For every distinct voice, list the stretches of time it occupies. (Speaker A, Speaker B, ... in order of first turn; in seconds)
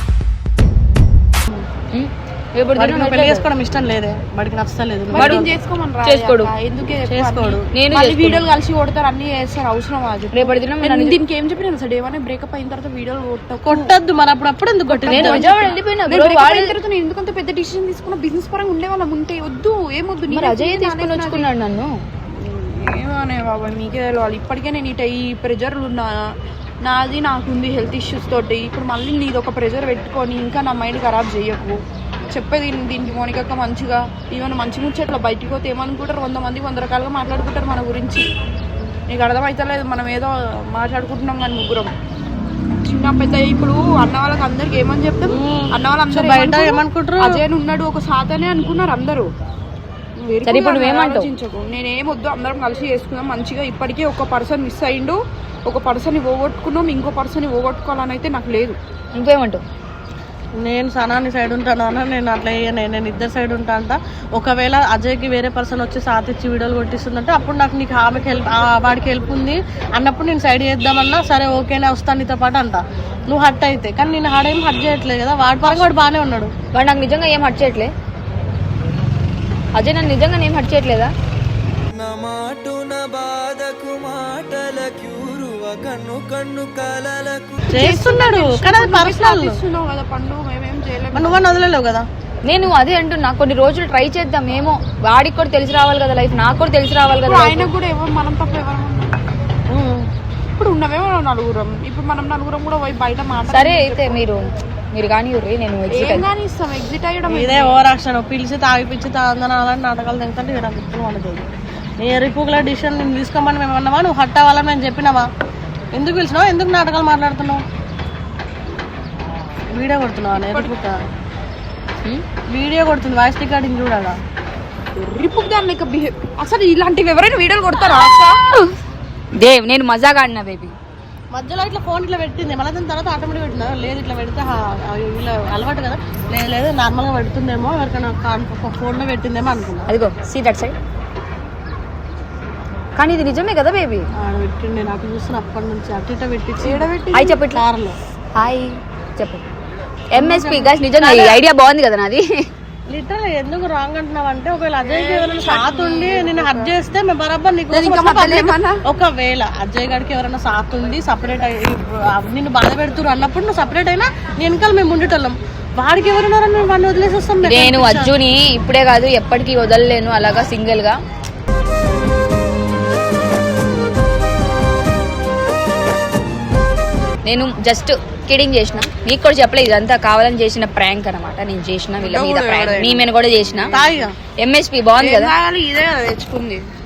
Speaker A: 1.9-3.5, 5.2-5.5, 6.0-6.5, 7.7-8.4, 10.3-11.2, 15.1-16.7, 20.3-21.9, 50.5-51.3, 59.1-59.6, 75.7-75.9, 76.7-77.9, 79.8-81.1, 92.5-97.7, 103.5-106.3, 129.4-130.7, 139.9-140.8, 143.0-144.1, 147.1-147.6, 148.4-149.4, 150.1-152.2, 167.4-171.0, 177.3-183.8, 184.4-185.3
Speaker B: 2.8-5.5, 7.0-7.7, 13.7-15.4, 45.3-47.4, 60.6-76.5, 87.7-89.6, 91.1-92.1, 99.7-100.0, 107.3-111.5, 112.0-115.3, 115.9-117.6, 119.7-121.0, 122.5-124.2, 131.3-139.9, 144.2-148.0, 150.2-151.4, 152.9-168.1, 183.7-184.1
Speaker C: 5.1-13.9, 14.9-21.5, 22.3-26.3, 26.8-38.3, 39.1-41.9, 42.9-49.3, 50.2-58.8, 87.7-91.5, 97.2-99.2, 100.6-104.2, 105.9-107.8, 120.3-120.7, 125.0-128.4, 146.6-147.4, 154.8-156.7, 157.7-158.8, 182.0-183.1, 183.7-184.0, 185.0-186.6
Speaker D: 81.9-87.7